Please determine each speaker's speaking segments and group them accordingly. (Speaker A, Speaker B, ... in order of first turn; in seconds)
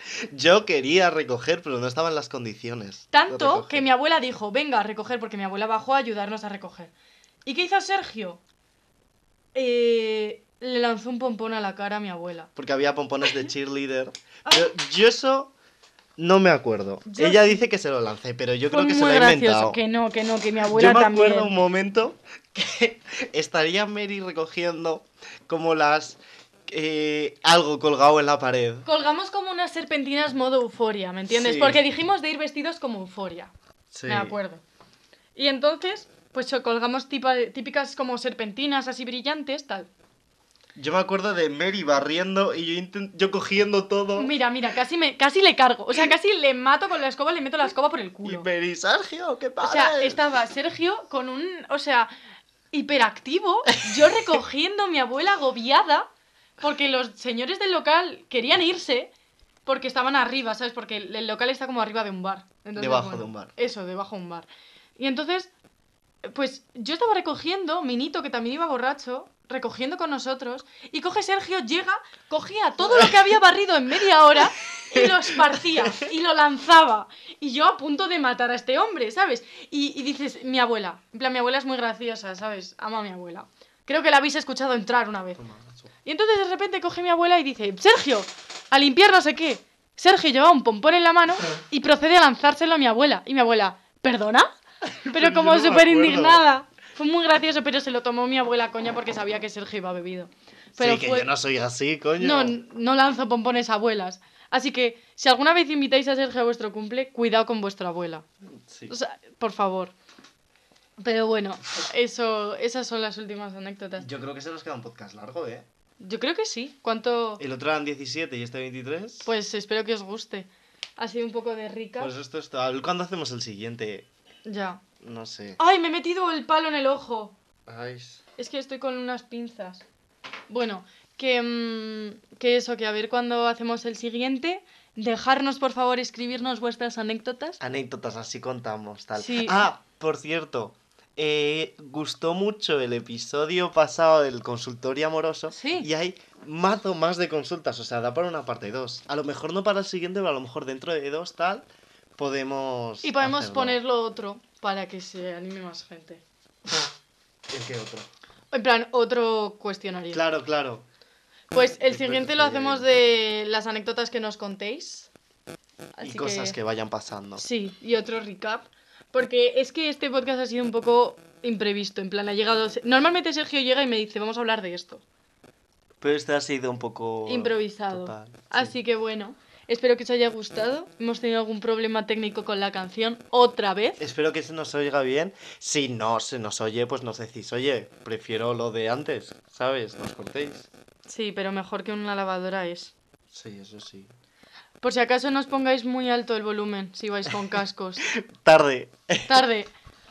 Speaker A: 0.2-3.9, 12.6-15.5, 16.2-19.8, 20.7-28.9, 31.3-31.8, 33.9-34.4, 40.8-44.3, 48.2-50.2, 53.9-54.3, 62.8-63.5, 72.8-73.3, 74.9-76.1, 85.4-85.9, 94.8-96.5, 100.8-102.6, 108.6-108.9, 114.0-115.7, 117.4-119.3, 122.0-124.1, 125.0-125.6, 127.7-128.2, 137.6-151.7, 152.2-153.8, 157.5-158.1, 160.1-160.8, 161.6-162.9, 166.0-167.4, 176.0-178.7, 184.0-190.7, 193.3-194.1, 198.0-199.4
Speaker B: 3.1-6.9, 7.4-8.4, 9.5-12.5, 14.4-14.7, 17.1-17.6, 18.7-21.5, 28.8-33.5, 34.1-34.6, 35.4-39.9, 44.1-48.5, 49.6-52.1, 52.7-56.1, 56.6-59.1, 59.6-65.5, 66.2-85.4, 86.0-94.5, 95.1-101.3, 102.2-108.2, 108.9-109.9, 111.0-114.0, 116.0-117.4, 119.2-122.1, 124.5-124.8, 125.6-127.3, 128.4-129.8, 130.5-137.6, 139.2-139.7, 145.5-145.9, 153.0-156.2, 158.5-160.2, 161.5-165.1, 166.0-166.6, 167.4-175.0, 177.2-184.0, 191.1-192.9, 194.8-198.1, 199.3-199.7